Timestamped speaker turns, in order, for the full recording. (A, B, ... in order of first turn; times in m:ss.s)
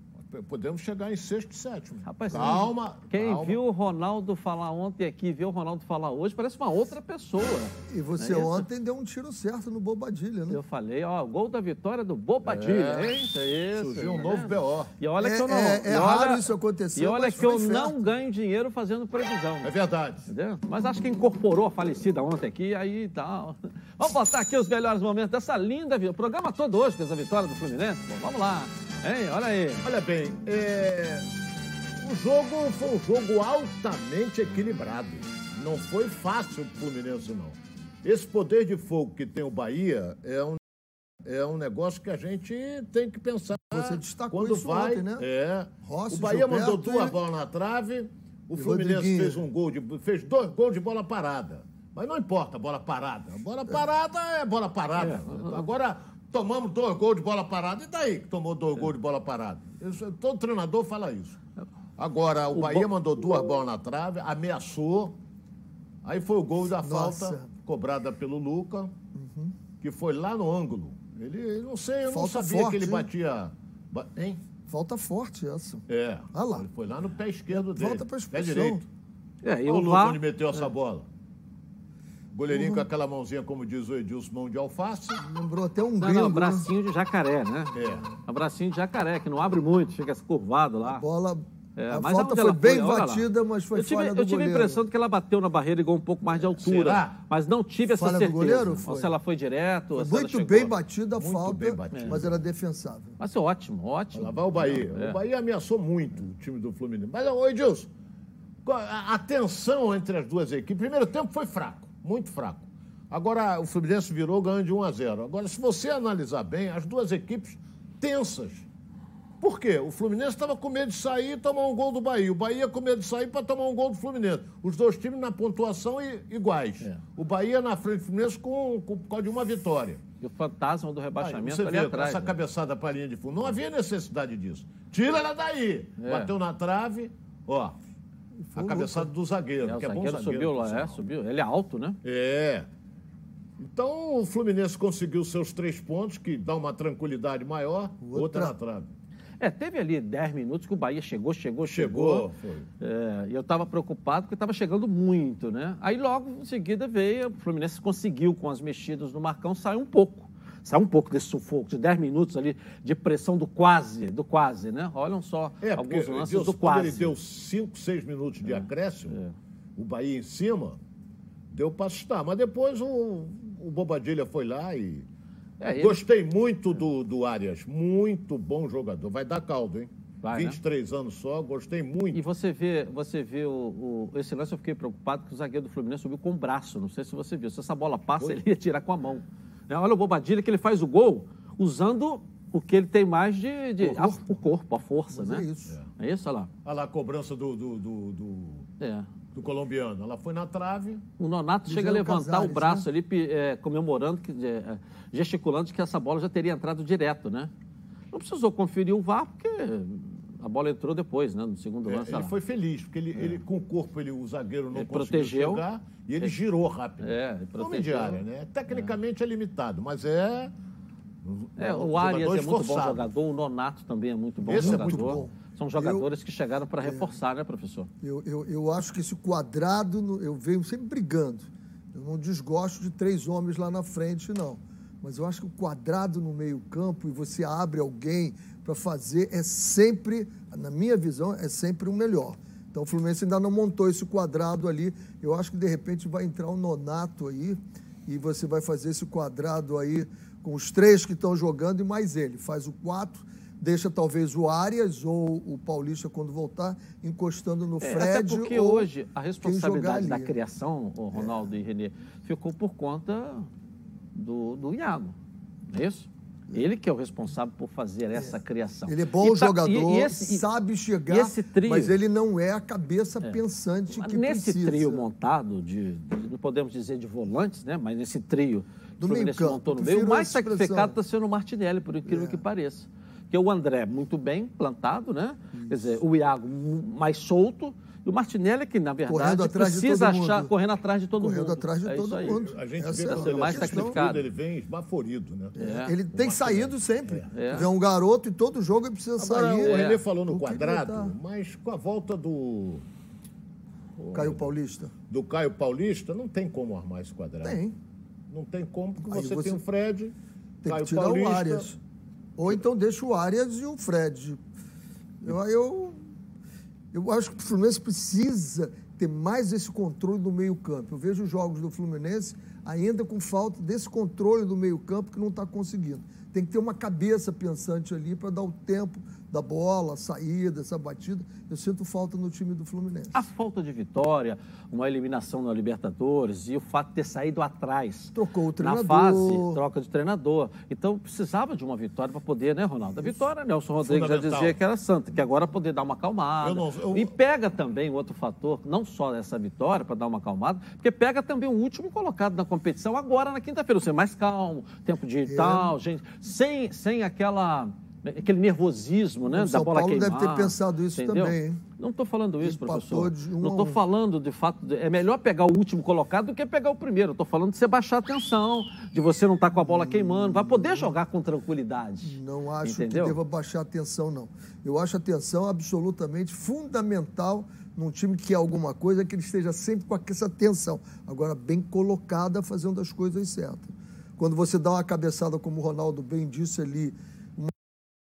0:00.2-0:03.6 A
0:02.0-0:08.6 B
0:02.4-0:02.7 C
0:07.9-0:10.6 C
0:10.5-0:19.7 B
0:12.4-0:14.9 A
0:15.2-0:18.0 C
0:19.6-0:20.2 A
0:20.2-0:29.8 B
0:29.8-0:31.3 A
0:32.0-0:40.6 A
0:41.2-1:01.4 A
0:43.6-0:45.3 C
0:45.8-0:47.2 C
0:48.6-0:49.5 C
0:55.0-0:55.7 B
1:02.0-1:05.2 A
1:02.5-1:02.9 B
1:06.0-1:08.9 A
1:06.8-1:07.5 C
1:09.1-1:09.6 C
1:09.8-1:14.4 A
1:12.1-1:13.1 C
1:14.7-1:16.7 C
1:15.9-1:18.9 A
1:17.5-1:18.8 C
1:19.4-1:20.2 B
1:19.6-1:21.1 A
1:22.3-1:25.2 A
1:22.5-1:22.9 C
1:25.2-1:26.7 C
1:26.0-1:31.0 B
1:27.7-1:28.0 A
1:30.9-1:34.8 C
1:31.8-1:40.8 B
1:36.6-1:37.2 A
1:37.8-1:39.2 C
1:39.9-1:43.2 C
1:41.2-1:42.4 A
1:41.9-1:42.2 B
1:43.2-1:45.2 B
1:44.1-1:47.9 A
1:48.6-1:58.7 A
1:59.4-2:10.0 A
2:10.2-2:12.3 B
2:11.2-2:17.8 A
2:16.0-2:16.3 B
2:18.5-2:19.1 C
2:18.6-2:21.0 A
2:19.6-2:22.0 B
2:22.0-2:22.7 A
2:23.6-2:28.9 A
2:28.0-2:28.5 C
2:29.4-2:32.3 B
2:31.7-2:32.7 A
2:32.8-2:47.1 B
2:45.6-2:49.2 A
2:48.4-2:49.4 B
2:49.8-2:50.8 A
2:51.5-2:55.1 A
2:55.6-2:56.0 B
2:55.7-3:02.2 A
3:00.2-3:00.6 B
3:02.1-3:15.5 B
3:13.8-3:14.4 C
3:15.1-3:15.8 C
3:16.0-3:16.5 B
3:16.6-3:18.7 A
3:18.8-3:19.1 B
3:19.3-3:21.0 A
3:21.2-3:27.5 B
3:21.7-3:22.9 C
3:28.1-3:32.3 B
3:31.9-3:40.5 A
3:34.7-3:35.6 B
3:37.0-3:38.9 B
3:41.2-3:43.1 A
3:41.6-3:47.9 B
3:44.4-3:45.3 A
3:44.4-3:46.1 C
3:46.8-3:47.1 C
3:48.0-4:18.9 C
4:17.8-4:23.5 B
4:19.4-4:20.4 C
4:21.1-4:21.5 C
4:24.2-4:25.2 B
4:25.7-4:30.5 B
4:28.9-4:35.1 C
4:31.1-4:32.0 B
4:34.0-4:52.4 B
4:39.0-4:41.0 C
4:42.1-4:42.4 C
4:45.5-4:45.9 C
4:49.1-4:50.5 C
4:51.2-4:54.0 C
4:52.4-4:55.6 A
4:53.1-4:54.2 B
4:55.6-5:01.2 C
4:55.6-4:56.0 B
4:56.1-4:57.2 A
4:57.3-4:57.7 B
4:59.2-5:02.8 A
4:59.6-5:00.0 B
5:04.0-5:04.5 A
5:04.1-5:04.9 C
5:05.1-5:07.6 A
5:07.4-5:07.8 C
5:08.3-5:10.2 A
5:09.0-5:09.6 C
5:10.6-5:11.8 C
5:10.7-5:11.7 A
5:12.4-5:14.4 C
5:15.2-5:16.0 C
5:16.9-5:33.2 C
5:33.1-6:13.2 B
5:38.1-5:39.6 C
5:43.8-5:44.6 A
5:46.4-5:47.1 A
5:55.3-5:55.8 C
5:59.3-6:01.6 C
6:02.4-6:03.8 C
6:09.6-6:11.0 C
6:12.0-6:27.6 C